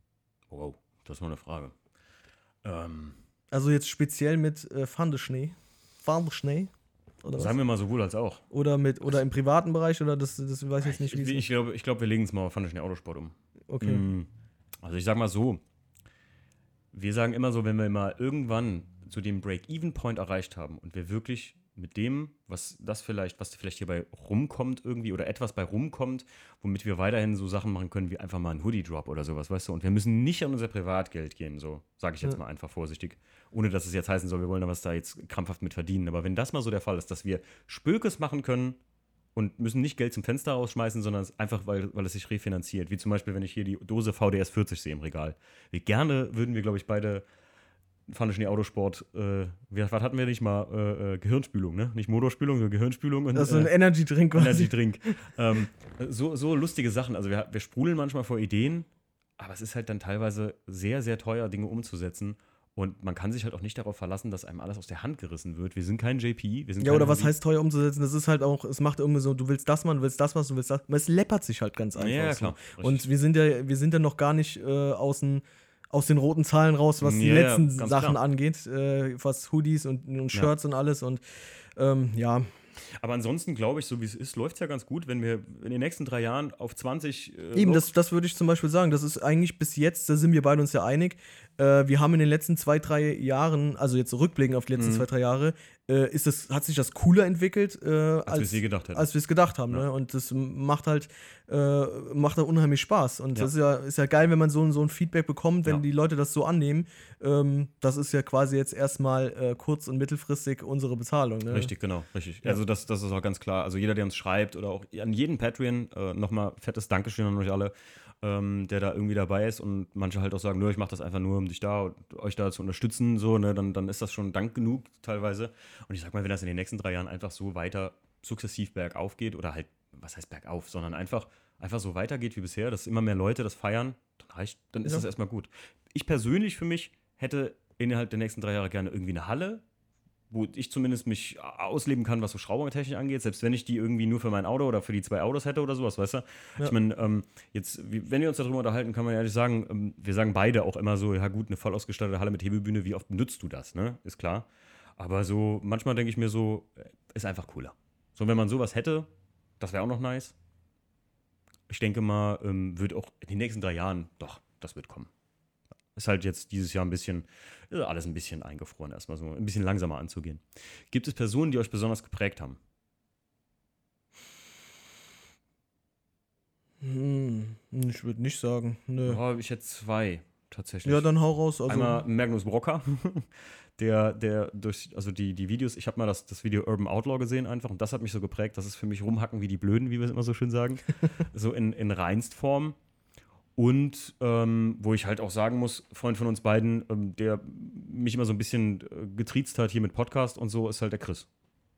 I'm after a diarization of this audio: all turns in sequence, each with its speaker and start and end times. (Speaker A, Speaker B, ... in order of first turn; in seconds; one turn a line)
Speaker A: 0.5-1.8
Speaker A: 2.6-3.2
Speaker B: 3.5-6.7
Speaker B: 7.2-7.5
Speaker A: 7.3-8.4
Speaker B: 8.5-11.5
Speaker A: 10.8-14.3
Speaker B: 13.7-14.0
Speaker A: 14.8-15.6
Speaker A: 16.9-38.8
Speaker A: 39.4-47.2
Speaker A: 48.1-53.8
Speaker B: 53.4-55.2
Speaker A: 54.3-67.3
Speaker B: 66.8-81.2
Speaker A: 72.0-73.0
Speaker A: 77.0-78.2
Speaker B: 81.8-82.5
Speaker A: 83.0-87.9
Speaker B: 87.5-111.7
Speaker A: 94.8-95.1
Speaker A: 98.3-99.1
Speaker A: 111.5-139.6
Speaker A: 140.3-160.3
Speaker A: 161.7-165.1
Speaker A: 165.9-172.6
Speaker B: 176.8-179.2
Speaker A: 179.0-181.1
Speaker B: 180.8-182.0
Speaker A: 181.7-192.8
Speaker A: 193.6-201.3